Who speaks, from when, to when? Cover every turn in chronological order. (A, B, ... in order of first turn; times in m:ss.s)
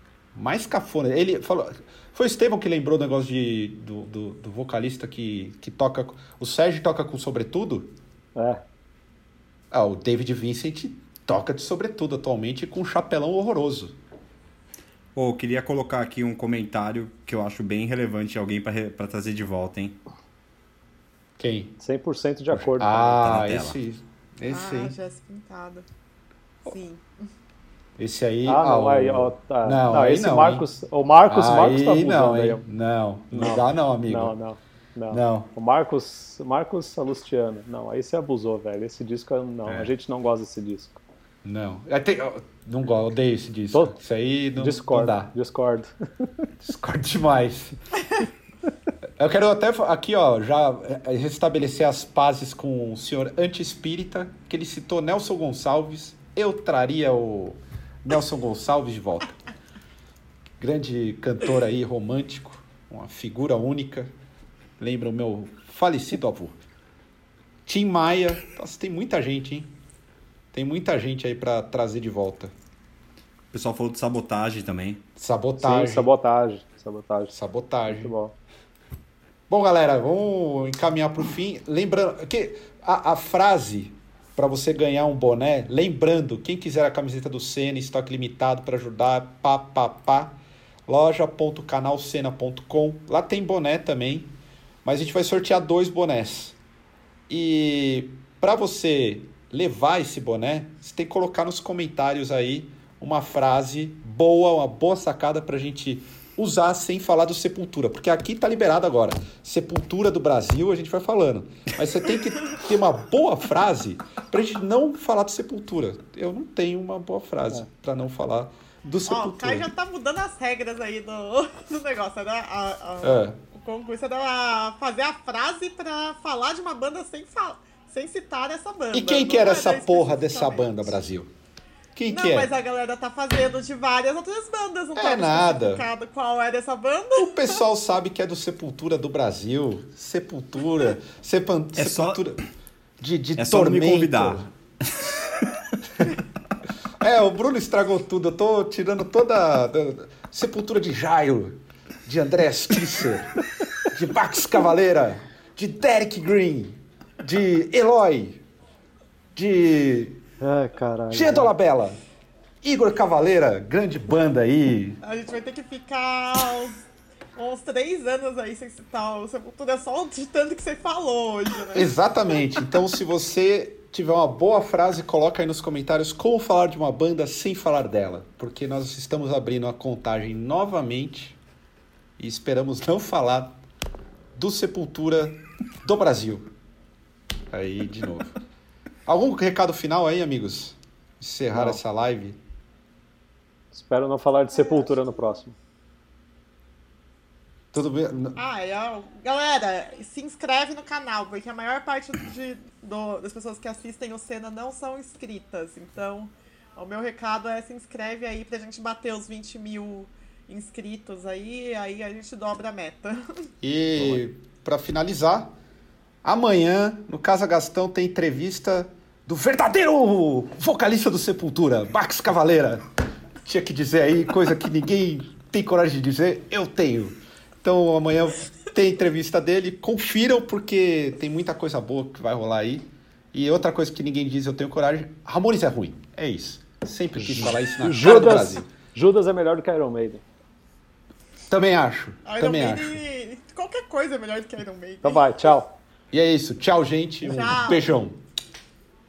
0:00.3-0:07.9 A
0:08.4-0:08.6 B
0:09.7-0:14.0 A
0:15.2-0:20.0 C
0:21.4-0:21.7 A
0:21.8-0:23.2 B
0:22.5-0:25.0 A
0:23.2-0:23.8 C
0:24.5-0:25.8 D
0:26.6-0:27.3 D
0:28.0-0:30.6 A
0:28.4-0:32.6 B
0:31.2-0:34.3 A
0:33.3-0:41.0 B
0:35.1-0:35.5 A
0:39.6-0:39.9 A
0:41.4-0:45.3 A
0:44.5-0:45.9 B
0:46.6-0:47.7 A
0:49.2-0:59.4 A
1:00.6-1:04.1 A
1:04.8-1:06.6 A
1:07.6-1:09.7 A
1:10.5-1:12.5 A
1:13.5-1:15.0 C
1:15.2-1:16.1 A
1:15.6-1:17.3 B
1:17.3-1:18.1 A
1:17.9-1:18.3 B
1:19.5-1:36.6 A
1:37.3-1:59.7 A
1:59.1-2:11.0 D
2:03.0-2:03.4 A
2:08.9-2:11.3 A
2:12.0-2:12.5 A
2:12.1-2:17.6 D
2:14.9-2:15.8 A
2:17.2-2:22.4 A
2:21.8-2:22.2 C
2:23.0-2:24.5 A
2:23.4-2:25.4 C
2:27.0-2:33.3 A
2:33.9-2:38.4 A
2:39.3-2:40.2 A
2:40.4-2:41.5 B
2:41.1-2:42.0 A
2:42.6-2:45.0 A
2:45.0-2:46.8 D
2:47.4-2:51.9 D
2:51.7-3:01.4 A
3:02.2-3:03.6 A
3:04.3-3:06.5 A
3:07.5-3:08.4 A
3:09.0-3:12.4 A
3:11.5-3:11.8 B
3:13.7-3:15.5 B
3:14.5-3:15.2 D
3:17.7-3:18.4 A
3:18.4-3:33.5 D
3:33.6-3:35.5 A
3:36.2-3:42.8 A
3:43.4-3:58.6 A
3:57.2-4:00.2 B
4:01.5-4:03.0 A
4:02.2-4:05.3 D
4:05.0-4:05.7 B
4:06.1-4:08.2 A
4:07.2-4:07.8 D